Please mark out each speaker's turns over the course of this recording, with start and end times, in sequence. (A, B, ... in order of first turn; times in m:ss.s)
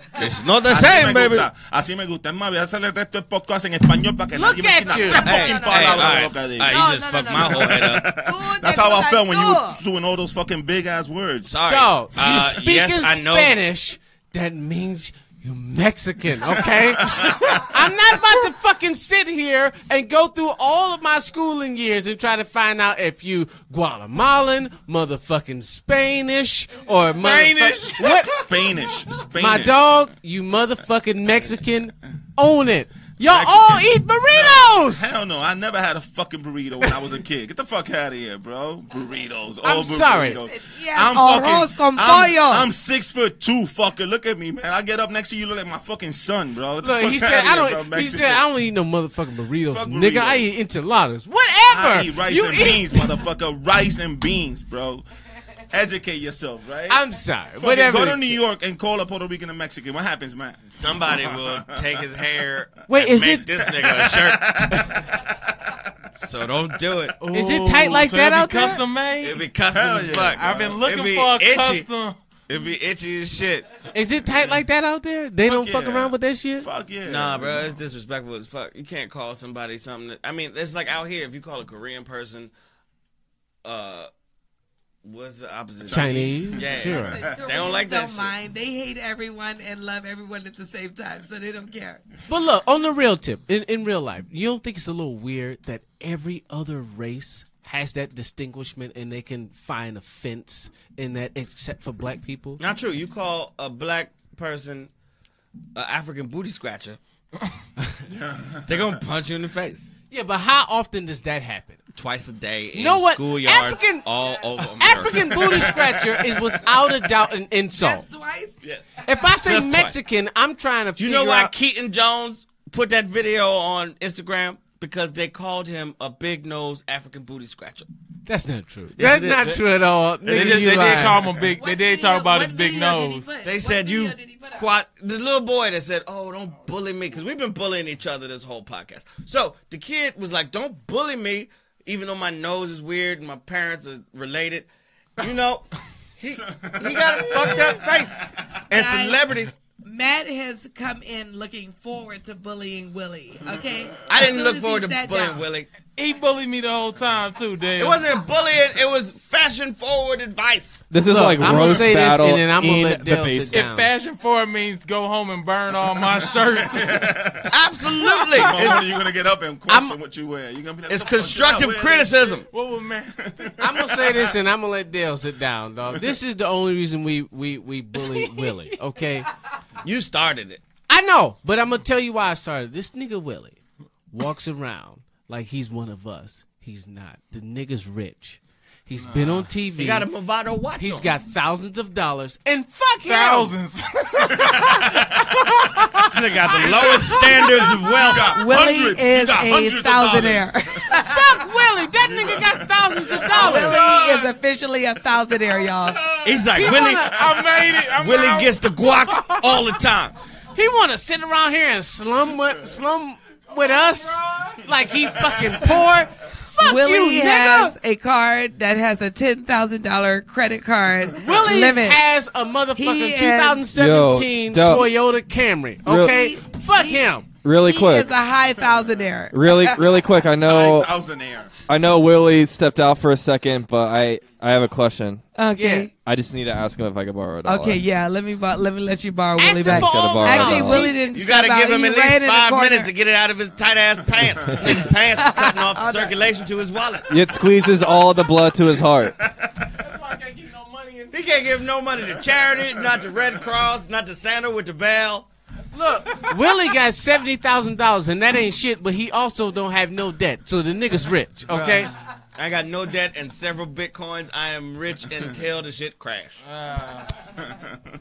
0:00.2-0:01.5 A
0:00.2-0:11.6 B
0:04.3-0:05.4 C
0:05.1-0:09.8 D
0:05.2-0:08.1 A
0:11.4-0:13.6 A
0:11.6-0:28.5 C
0:16.5-0:17.7 B
0:27.2-0:28.9 E
0:28.4-0:30.1 B
0:29.4-0:35.1 C
0:33.2-0:48.4 B
0:39.6-0:40.4 C
0:40.4-0:42.7 D
0:46.8-0:53.2 C
0:49.7-0:50.5 B
0:51.7-0:55.0 B
0:55.7-0:57.0 B
0:56.9-0:58.4 C
0:57.6-1:02.1 B
1:00.8-1:04.6 A
1:02.9-1:03.6 C
1:03.6-1:05.2 B
1:06.2-1:07.2 A
1:07.2-1:09.4 E
1:07.3-1:08.8 C
1:09.2-1:11.9 A
1:09.7-1:10.8 B
1:10.2-1:12.2 E
1:12.5-1:13.7 A
1:13.9-1:16.7 C
1:15.4-1:17.8 B
1:17.0-1:22.5 A
1:23.6-1:24.1 A
1:25.0-1:28.3 A
1:25.9-1:27.1 C
1:25.9-1:27.4 B
1:26.6-1:32.0 D
1:32.3-1:42.6 C
1:42.6-1:44.9 A
1:45.7-1:47.0 A
1:48.1-1:49.0 B
1:48.7-1:49.9 A
1:50.1-1:51.8 C
1:51.9-1:55.8 A
1:52.7-1:54.1 C
1:54.0-1:54.5 D
1:54.6-1:58.1 C
1:55.4-1:56.6 B
1:57.7-1:59.3 D
1:59.0-2:01.5 C
1:59.4-1:59.9 A
2:01.0-2:07.9 A
2:08.3-2:11.3 C
2:09.0-2:09.6 A
2:10.2-2:13.3 E
2:10.2-2:11.2 A
2:11.4-2:14.7 D
2:13.4-2:25.7 A
2:26.2-2:29.5 A
2:26.4-2:27.9 B
2:28.5-2:35.5 D
2:34.1-2:35.7 A
2:36.0-2:38.1 E
2:37.8-2:40.9 A
2:40.9-2:43.6 F
2:41.0-2:43.9 C
2:43.5-2:47.1 E
2:46.4-2:52.4 B
2:47.5-2:48.8 A
2:48.3-2:48.8 E
2:49.7-2:50.0 C
2:50.9-2:52.4 A
2:52.5-2:53.5 E
2:53.2-2:54.3 B
2:53.6-2:59.3 C
2:59.8-3:00.6 A
3:00.9-3:03.6 C
3:04.1-3:10.1 C
3:09.0-3:09.5 E
3:09.8-3:11.1 A
3:10.8-3:13.6 C
3:13.1-3:17.9 E
3:14.3-3:15.3 B
3:16.0-3:18.3 A
3:16.6-3:17.3 B
3:17.9-3:21.0 B
3:18.2-3:21.4 D
3:21.0-3:23.8 C
3:22.0-3:23.7 B
3:23.3-3:26.0 D
3:23.4-3:24.3 E
3:25.7-3:29.8 E
3:26.2-3:27.2 A
3:26.5-3:27.2 C
3:28.0-3:30.1 A
3:30.5-3:37.7 C
3:35.1-3:35.8 B
3:36.6-3:42.0 D
3:41.2-3:47.3 C
3:42.8-3:43.7 D
3:43.7-3:44.9 F
3:45.8-3:46.2 F
3:46.0-3:50.0 D
3:47.4-3:48.1 F
3:49.3-3:50.9 F
3:50.4-3:51.6 B
3:51.6-3:55.2 F
3:55.4-3:55.9 D
3:55.6-3:55.9 C
3:55.9-3:57.8 F
3:57.4-4:02.9 D
3:59.4-4:01.1 C
3:59.7-4:01.0 F
4:01.1-4:07.1 A
4:04.2-4:04.9 B
4:04.5-4:06.2 D
4:07.1-4:09.2 F
4:07.6-4:08.6 E
4:09.3-4:09.6 B
4:09.6-4:11.5 E
4:11.1-4:15.3 A
4:12.1-4:13.4 B
4:15.7-4:21.9 C
4:16.1-4:16.6 E
4:21.5-4:26.4 A
4:26.4-4:27.2 E